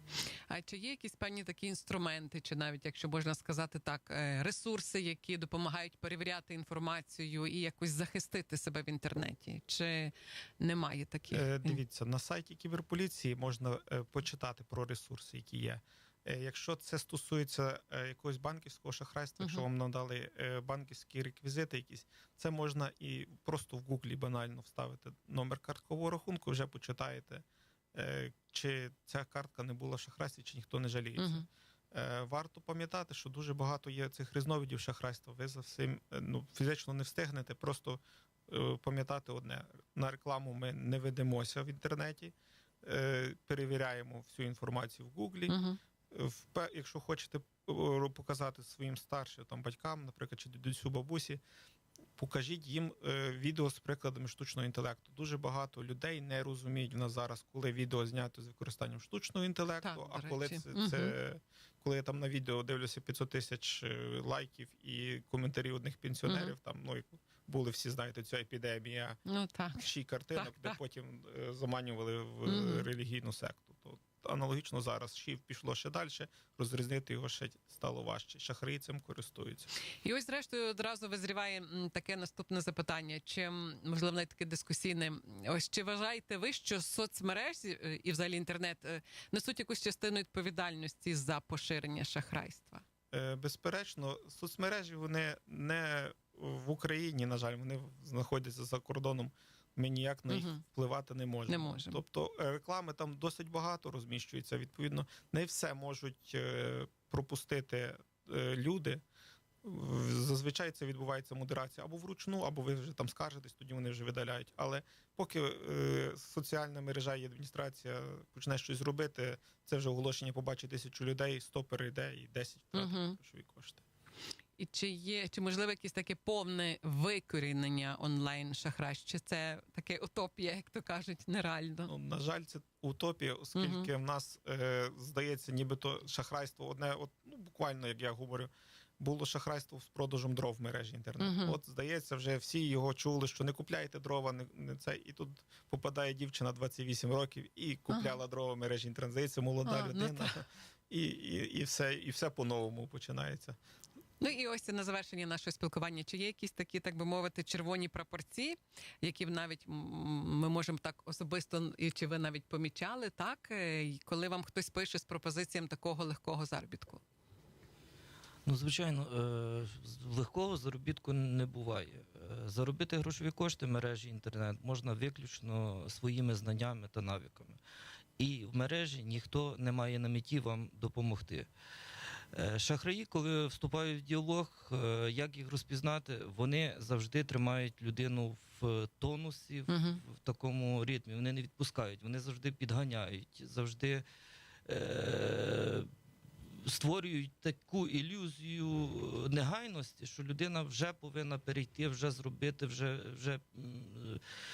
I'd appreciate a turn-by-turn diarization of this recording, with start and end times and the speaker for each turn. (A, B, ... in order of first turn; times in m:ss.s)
0:00.5-0:11.8 A
0:11.3-0:45.5 B
0:19.4-0:19.6 A
0:31.2-0:31.4 A
0:45.5-0:45.8 A
0:46.1-0:51.4 B
0:52.2-1:09.2 B
0:59.8-1:01.2 A
1:06.2-1:06.5 A
1:09.2-1:10.8 A
1:09.8-1:19.7 B
1:12.4-1:12.9 A
1:20.0-1:32.8 A
1:33.1-1:49.0 B
1:40.3-1:40.6 A
1:41.5-1:42.0 A
1:49.6-2:03.8 B
2:02.7-2:03.2 A
2:04.6-2:11.9 A
2:11.9-2:33.6 B
2:13.6-2:13.9 A
2:21.2-2:21.6 A
2:29.6-2:30.3 A
2:34.2-2:47.0 A
2:48.4-2:57.6 C
2:58.2-3:01.5 C
3:02.3-3:14.0 C
3:09.7-3:10.0 A
3:14.6-3:15.9 C
3:16.6-3:24.2 C